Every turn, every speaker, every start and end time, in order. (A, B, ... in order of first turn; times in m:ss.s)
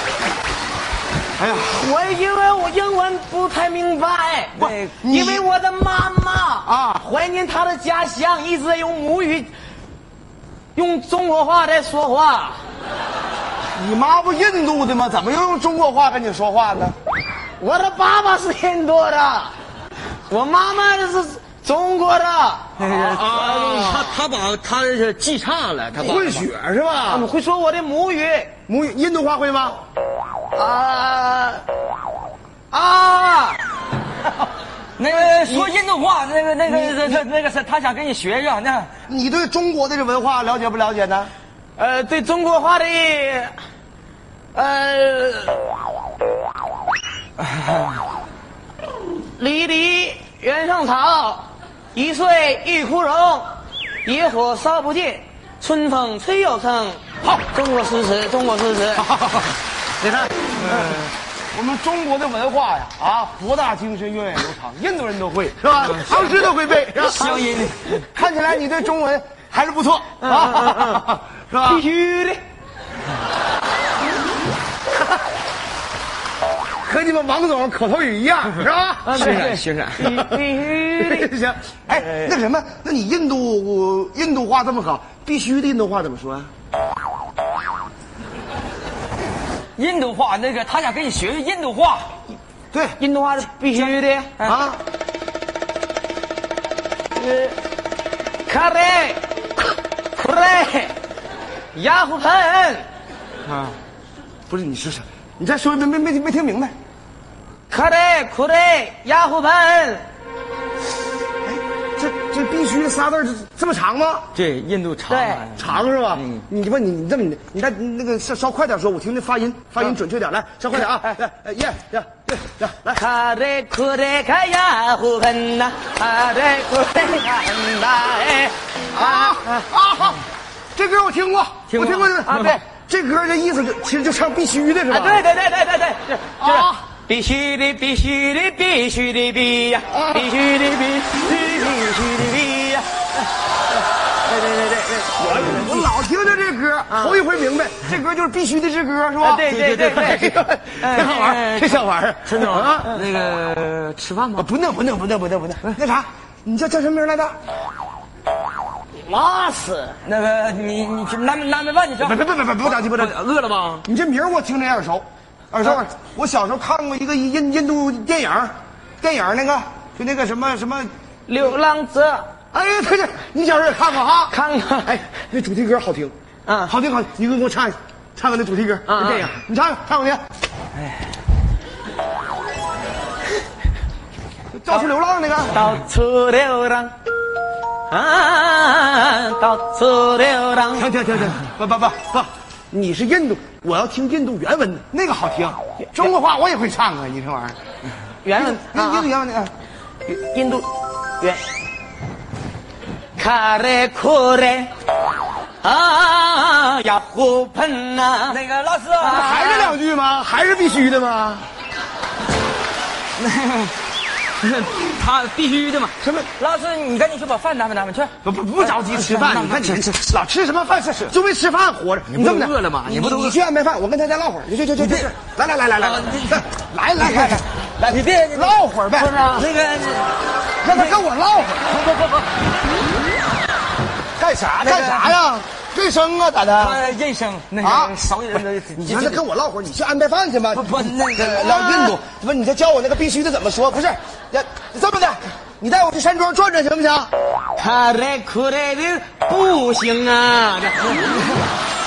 0:01.4-0:01.8 A
0:01.7-0:09.5 B
0:04.6-0:05.5 A
0:04.6-0:04.9 C
0:06.7-0:07.0 A
0:10.8-0:12.6 B
0:13.8-0:17.0 A
0:17.6-0:19.5 B
0:20.3-0:22.7 B
0:22.8-0:26.5 C
0:22.9-0:24.1 A
0:26.0-0:27.3 A
0:27.1-0:28.5 B
0:28.7-0:29.8 A
0:30.6-0:31.6 B
0:32.7-0:33.7 B
0:35.0-0:38.9 C
0:35.1-0:35.7 B
0:36.7-0:37.2 A
0:39.1-0:41.3 A
0:41.8-0:43.5 B
0:44.5-0:45.7 B
0:49.1-0:53.5 B
0:54.0-0:59.1 B
0:59.0-1:07.4 A
1:00.6-1:01.1 C
1:05.9-1:06.2 C
1:07.0-1:08.0 C
1:08.0-1:11.8 A
1:10.2-1:11.1 B
1:11.6-1:12.4 B
1:16.8-1:20.4 A
1:19.1-1:21.3 B
1:19.2-1:20.1 C
1:21.0-1:26.5 A
1:21.9-1:22.3 C
1:29.8-1:32.1 C
1:32.7-1:33.0 A
1:33.0-1:34.3 B
1:33.8-1:34.6 C
1:34.4-1:34.8 A
1:37.2-1:37.6 B
1:38.5-1:39.2 B
1:40.1-1:41.0 B
1:41.7-1:42.9 B
1:43.5-1:43.7 C
1:44.5-1:46.7 A
1:47.7-1:50.0 B
1:51.4-1:54.3 A
1:54.3-1:56.4 C
1:55.1-1:55.4 B
1:55.6-2:03.0 A
2:02.9-2:09.7 B
2:08.9-2:10.2 A
2:10.8-2:15.3 A
2:11.7-2:12.6 C
2:12.3-2:12.6 B
2:14.9-2:23.3 B
2:16.4-2:16.8 A
2:19.9-2:20.3 A
2:24.2-2:25.8 B
2:25.2-2:32.9 A
2:26.9-2:27.2 B
2:29.2-2:30.3 B
2:29.5-2:34.5 C
2:34.4-2:37.4 A
2:39.0-2:40.0 B
2:40.0-2:43.9 C
2:42.0-2:43.2 A
2:43.8-2:50.9 A
2:51.3-2:52.3 B
2:52.5-2:54.3 A
2:54.3-2:55.0 B
2:54.8-2:56.1 A
2:56.5-2:56.7 B
2:56.7-3:00.2 A
2:58.9-2:59.3 B
3:04.5-3:05.6 A
3:05.5-3:06.9 B
3:07.9-3:10.9 B
3:10.7-3:17.6 A
3:18.2-3:19.1 B
3:18.4-3:19.5 A
3:20.1-3:20.7 B
3:23.2-3:24.7 B
3:25.6-3:28.4 B
3:28.3-3:29.3 C
3:29.0-3:29.8 B
3:29.1-3:31.4 A
3:33.2-3:33.7 C
3:34.4-3:40.0 C
3:38.2-3:49.2 A
3:42.1-3:43.4 C
3:44.8-3:45.1 C
3:45.8-3:46.4 C
3:47.0-3:48.6 C
3:49.0-3:49.5 B
3:49.2-3:51.0 C
3:50.6-3:51.7 A
3:51.6-3:52.3 C
3:54.2-3:56.8 A
3:54.6-3:55.2 C
3:56.6-3:59.2 C
3:57.6-3:58.0 A
3:58.8-4:07.1 A
4:00.6-4:02.0 C
4:07.6-4:11.2 B
4:10.9-4:11.4 C